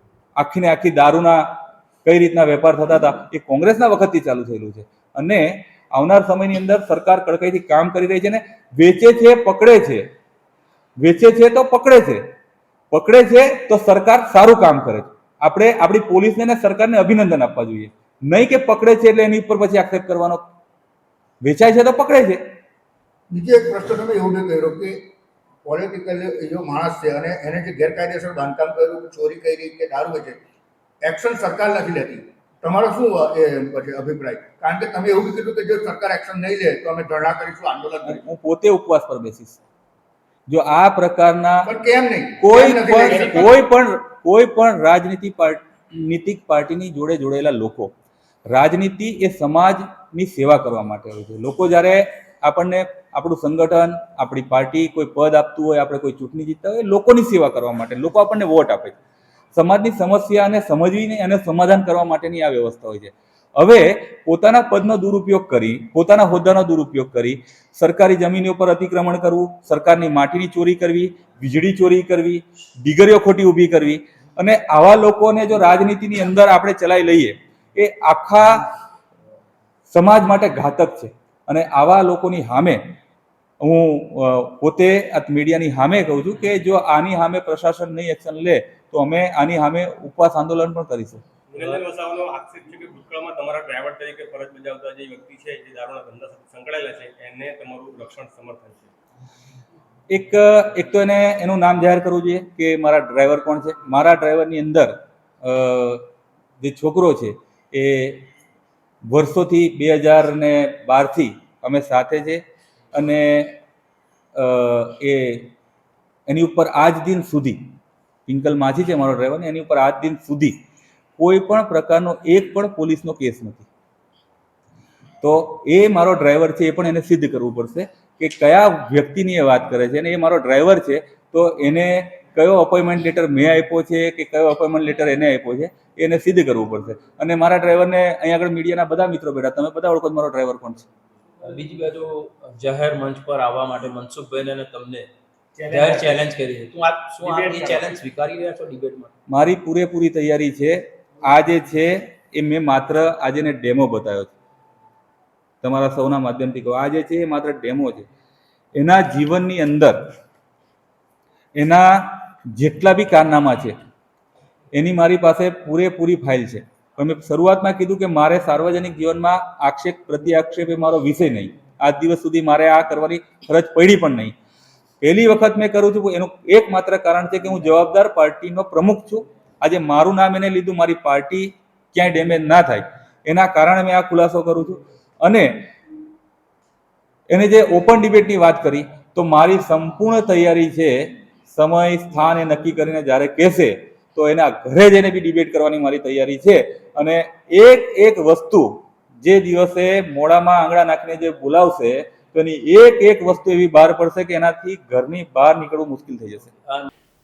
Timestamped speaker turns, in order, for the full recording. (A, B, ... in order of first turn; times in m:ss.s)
0:00.4-0:10.0 A
0:11.0-0:12.2 A
0:12.9-0:20.4 A
0:21.4-0:22.4 A
0:23.3-0:25.0 B
0:25.6-0:30.4 B
0:31.0-0:38.2 B
0:38.0-0:39.6 A
0:40.5-0:41.7 A
0:41.7-0:43.5 B
0:42.4-0:47.9 A
0:48.5-0:59.0 A
0:59.6-1:18.6 A
1:19.9-1:22.8 A
1:23.6-1:31.2 A
1:31.5-1:38.9 C
1:40.1-1:44.9 A
1:45.4-1:46.0 A
1:46.6-1:48.3 A
1:49.1-1:52.4 A
1:52.9-1:53.6 A
1:54.4-1:55.5 A
1:56.3-1:57.6 A
1:58.3-2:00.5 A
2:01.2-2:03.7 A
2:05.2-2:20.9 A
2:21.4-2:25.1 D
2:25.7-2:29.1 D
2:25.7-2:26.0 C
2:27.3-2:27.9 C
2:29.3-2:34.3 A
2:35.6-2:38.1 A
2:38.8-2:40.0 A
2:41.6-2:43.7 A
2:44.8-2:54.3 A
2:55.0-3:05.7 A
3:07.3-3:26.5 A